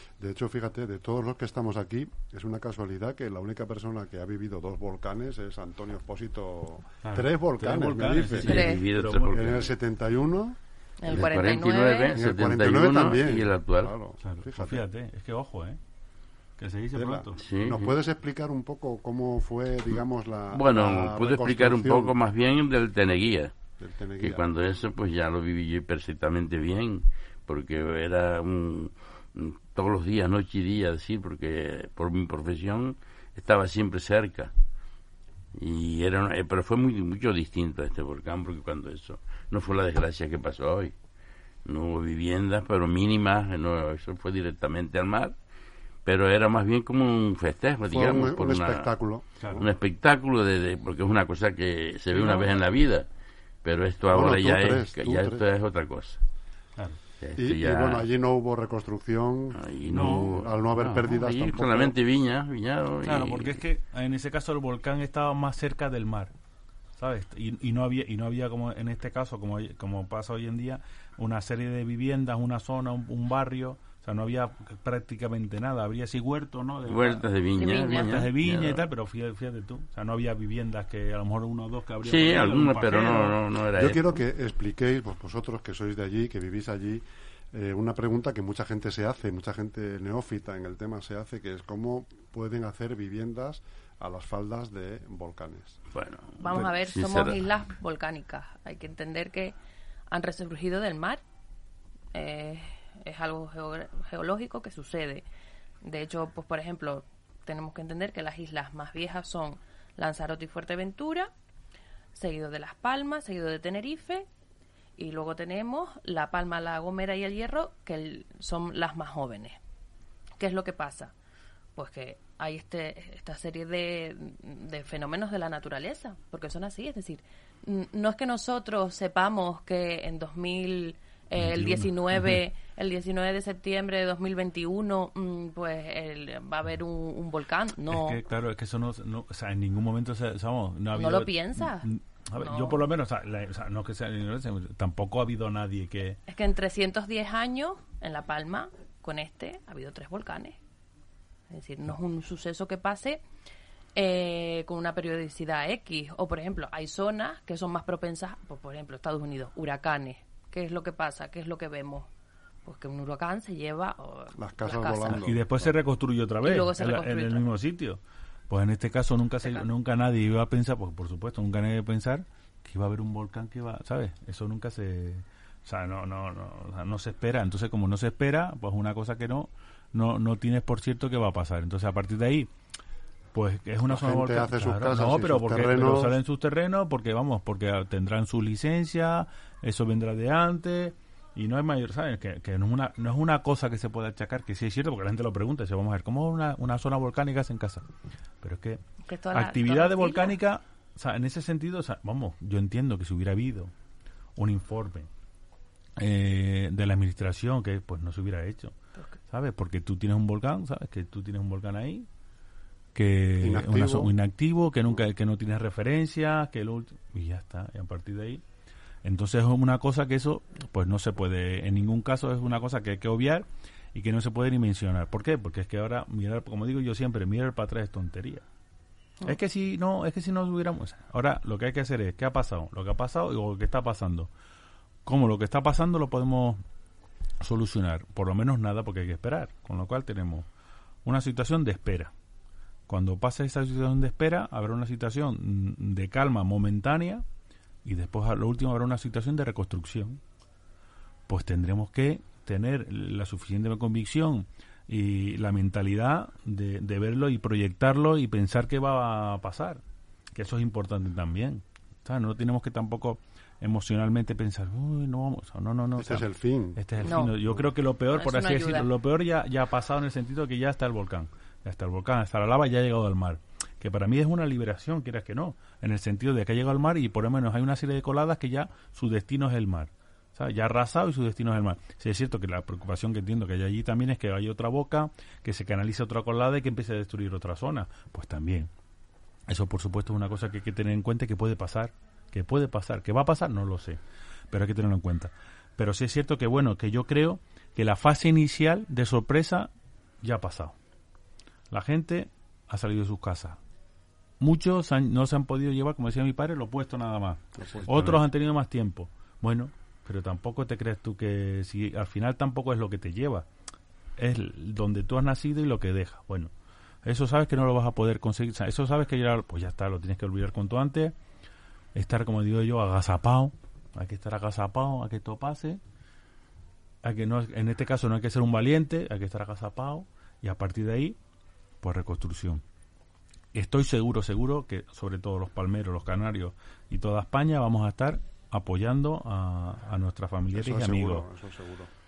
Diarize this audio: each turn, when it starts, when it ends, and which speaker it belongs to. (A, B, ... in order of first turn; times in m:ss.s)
0:00.2-0:10.6 A
0:07.0-0:09.7 B
0:08.3-0:09.7 C
0:08.5-0:08.8 D
0:11.0-0:12.2 D
0:11.1-0:13.9 C
0:12.1-0:14.8 A
0:14.2-0:15.8 B
0:16.6-0:17.4 B
0:16.9-0:22.1 A
0:17.4-0:17.9 C
0:20.5-0:23.5 C
0:23.8-0:24.4 A
0:24.2-0:34.5 C
0:35.5-0:40.9 C
0:41.6-0:45.4 C
0:46.0-0:48.9 C
0:47.9-0:49.7 A
0:49.4-0:49.7 B
0:49.5-0:53.1 C
0:52.1-0:52.6 B
0:53.6-0:56.2 C
0:54.1-0:55.4 A
0:57.2-0:58.0 C
0:57.4-1:01.9 A
0:59.5-1:03.6 C
0:59.9-1:00.3 B
1:03.0-1:06.3 B
1:07.0-1:23.4 B
1:16.9-1:18.8 C
1:17.6-1:18.2 D
1:22.0-1:24.2 C
1:23.7-1:35.8 A
1:35.9-1:37.4 C
1:36.4-1:39.5 D
1:40.1-1:41.2 D
1:42.1-1:45.2 D
1:45.8-1:51.3 D
1:52.1-1:54.3 D
1:55.0-1:59.6 D
2:00.4-2:01.1 D
2:01.8-2:18.2 D
2:11.4-2:12.4 B
2:17.9-2:26.2 B
2:20.9-2:22.8 D
2:26.3-2:30.6 D
2:31.5-2:33.2 D
2:33.9-2:42.1 D
2:42.6-2:45.2 D
2:44.4-2:45.7 A
2:45.1-3:02.5 B
2:46.4-2:47.4 D
3:03.3-3:17.8 B
3:03.9-3:06.2 A
3:18.4-3:18.8 B
3:19.0-3:20.4 D
3:19.3-3:23.7 B
3:24.4-3:25.1 B
3:26.0-3:28.7 B
3:29.3-3:32.1 B
3:32.9-3:38.4 B
3:33.4-3:34.1 A
3:39.0-3:48.4 B
3:49.2-3:54.3 B
3:55.0-3:56.6 B
3:57.4-4:00.4 B
4:01.0-4:02.1 B
4:02.9-4:07.2 B
4:07.8-4:10.2 B
4:11.3-4:19.8 B
4:20.3-4:48.7 B
4:26.0-4:27.7 A
4:27.0-4:27.4 D
4:28.1-4:28.9 D
4:49.5-4:54.0 B
4:54.5-4:59.7 B
5:00.2-5:00.7 B
5:01.7-5:03.6 B
5:04.4-5:13.4 B
5:07.6-5:08.2 A
5:14.2-5:16.5 B
5:17.0-5:21.1 B
5:21.9-5:25.8 B
5:27.0-5:31.2 B
5:31.8-5:32.6 B
5:33.5-5:41.2 B
5:40.5-5:41.9 A